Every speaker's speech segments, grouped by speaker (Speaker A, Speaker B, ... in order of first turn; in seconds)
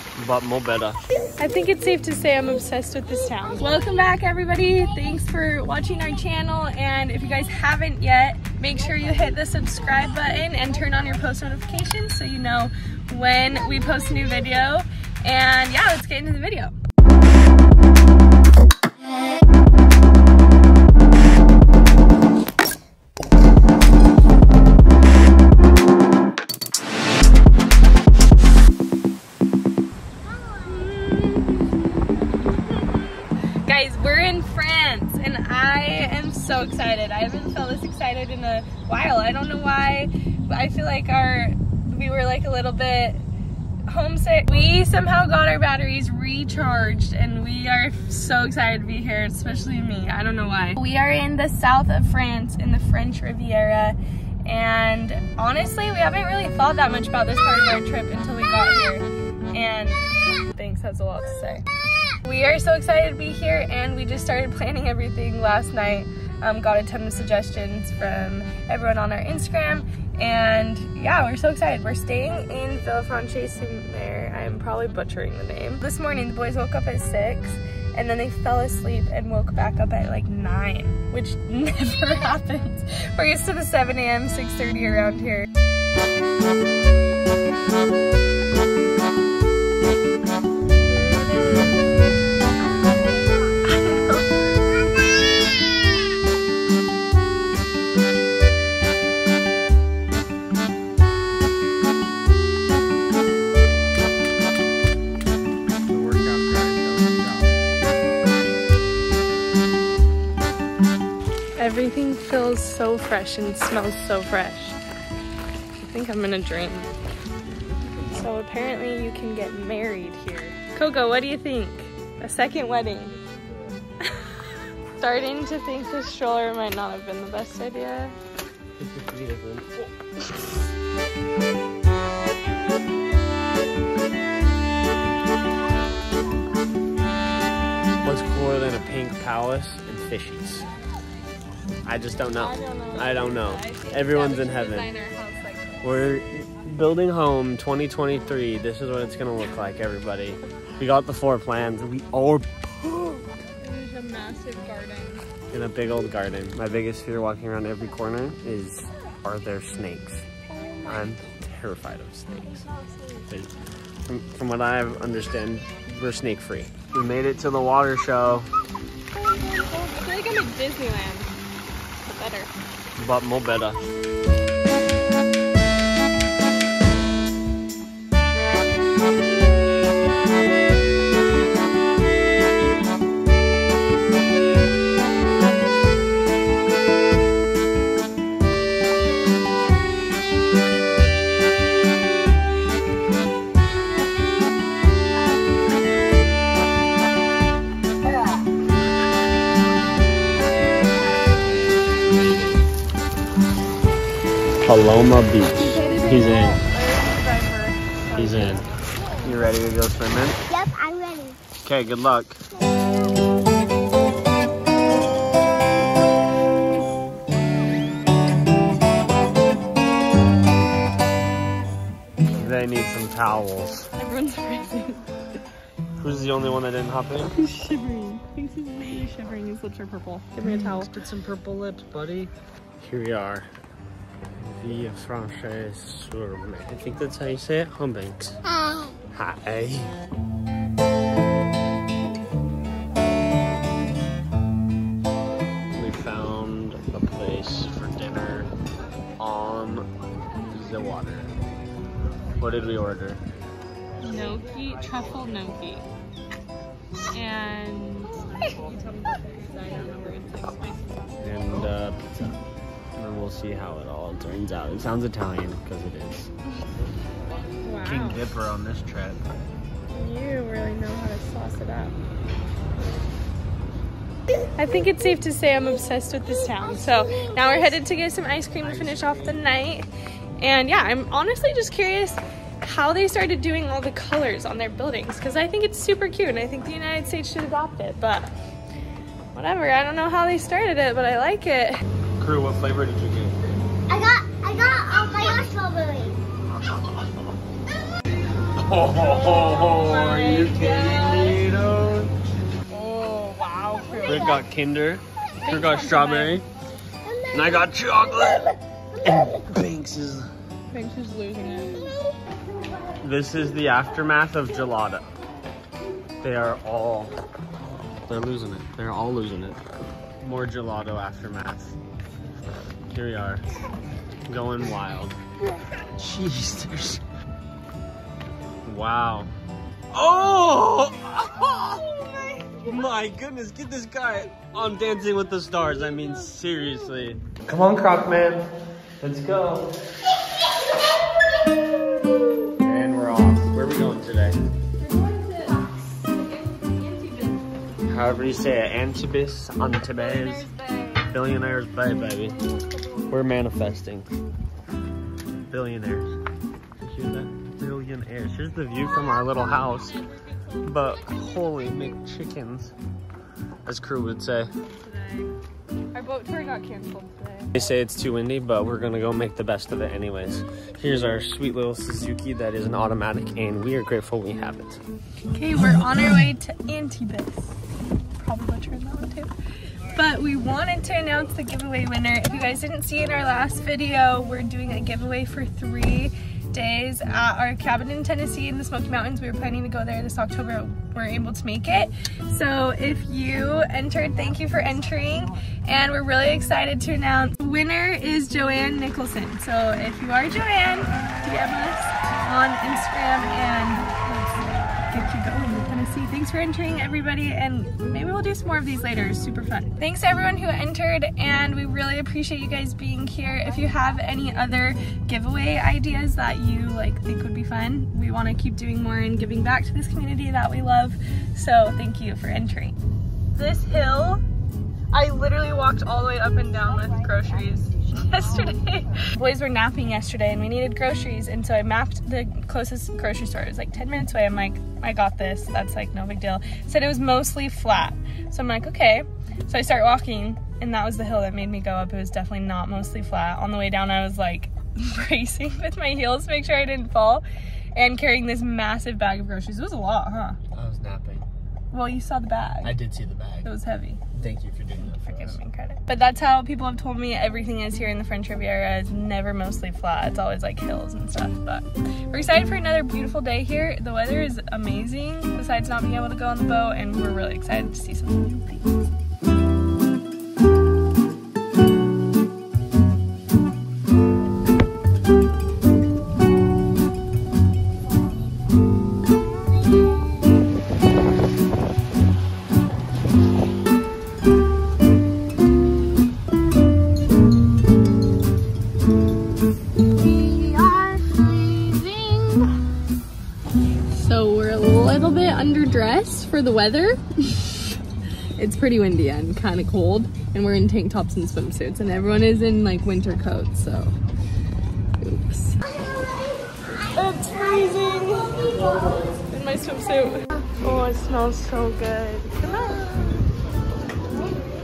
Speaker A: 0.2-1.0, 105.9-107.5, 128.8-129.7, 138.0-140.7, 141.9-144.9, 145.8-152.9, 155.5-160.3, 160.8-162.7, 163.3-168.5, 173.0-173.8, 204.7-206.6, 208.2-208.7, 209.2-210.4, 211.6-212.4, 222.3-223.9, 226.0-227.3, 230.4-233.5, 234.4-238.4, 239.1-240.0, 245.8-248.5, 249.2-249.9, 250.5-251.3, 252.4-253.2, 261.2-262.4, 263.0-266.3, 267.8-269.2, 278.5-279.5, 292.2-293.4, 298.5-302.1, 304.1-306.5, 307.3-310.3, 313.0-315.1, 316.2-317.2, 318.1-319.6, 320.2-321.8, 322.9-323.4, 324.3-325.2, 326.0-327.0, 328.6-329.3, 329.9-338.5, 339.0-339.7, 342.6-344.4, 347.9-350.5, 351.0-352.4, 353.1-354.1, 355.5-356.1, 356.9-360.1, 360.6-362.7, 363.6-364.5, 367.5-374.8, 450.5-451.3, 452.6-453.5, 454.1-455.4
Speaker B: 1.4-16.8, 30.5-43.2, 43.9-61.7, 62.2-85.5, 93.6-94.5, 111.6-114.8, 115.8-117.0, 118.1-123.2, 124.0-124.4, 125.0-128.2, 142.3-146.1, 152.9-155.3, 160.5-161.2, 162.6-163.3, 169.3-171.4, 172.1-172.5, 205.6-208.7, 224.0-225.1, 227.4-230.9, 254.0-255.9, 257.1-261.1, 267.6-268.2, 269.9-272.0, 274.6-288.3, 289.3-291.8, 299.4-301.4, 302.7-304.3, 305.4-306.4, 310.7-311.9, 344.8-347.4, 349.9-351.1, 364.7-365.3, 365.9-367.6, 375.3-377.6, 378.2-379.3, 379.9-403.9, 404.9-422.8, 423.3-424.2, 424.9-450.4, 451.7-452.8, 453.4-454.1, 454.8-468.9, 490.0-492.7, 493.9-497.8, 498.4-504.0, 505.0-505.7, 506.8-513.0
Speaker C: 210.5-211.4, 293.9-296.2